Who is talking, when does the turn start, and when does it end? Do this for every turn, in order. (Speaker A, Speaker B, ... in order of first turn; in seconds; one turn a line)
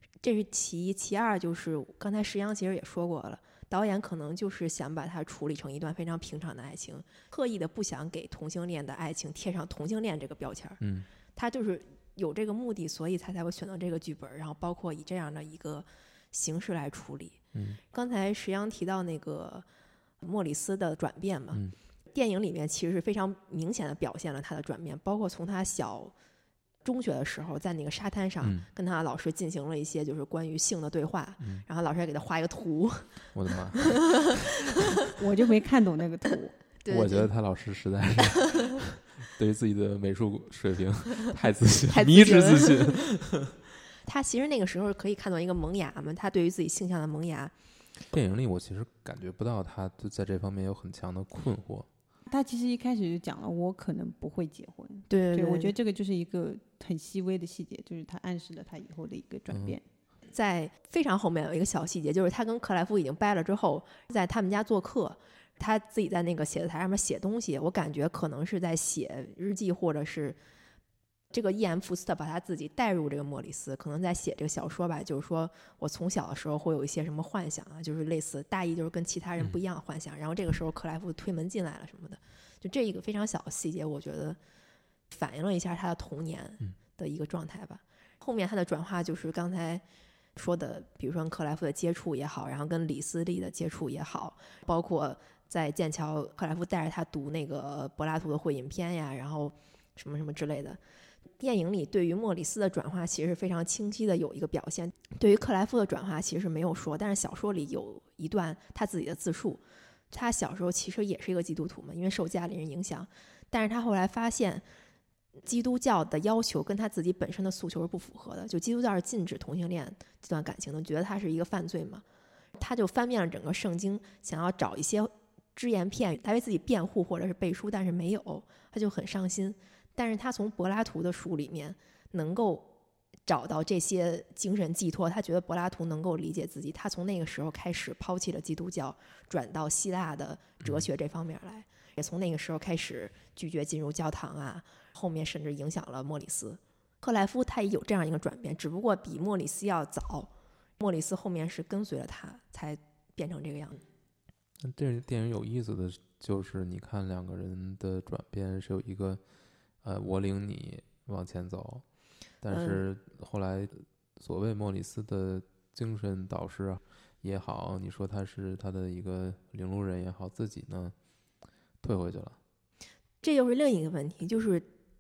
Speaker A: 0.2-10.8
Speaker B: 10.8-11.1
Speaker A: 11.3-17.4
Speaker B: 17.5-17.8
Speaker A: 17.9-19.7
Speaker A: 20.2-26.1
Speaker A: 26.8-34.8
Speaker B: 28.4-28.7
Speaker B: 31.4-31.7
Speaker B: 33.3-34.4
Speaker C: 35.0-36.6
Speaker A: 36.8-37.3
Speaker B: 36.9-43.6
Speaker A: 41.9-43.0
Speaker A: 44.0-47.5
Speaker B: 48.1-51.9
Speaker C: 52.3-59.8
Speaker A: 55.1-55.7
Speaker B: 59.5-59.8
Speaker A: 60.3-70.4
Speaker A: 71.3-84.4
Speaker A: 85.1-89.8
Speaker A: 90.3-100.8
Speaker A: 101.4-114.7
Speaker A: 115.4-122.0
Speaker A: 122.6-132.7
Speaker A: 133.3-153.8
Speaker B: 140.6-140.9
Speaker B: 154.6-159.2
Speaker B: 159.8-161.8
Speaker B: 162.4-170.9
Speaker A: 162.5-162.8
Speaker B: 171.8-172.4
Speaker A: 173.2-174.7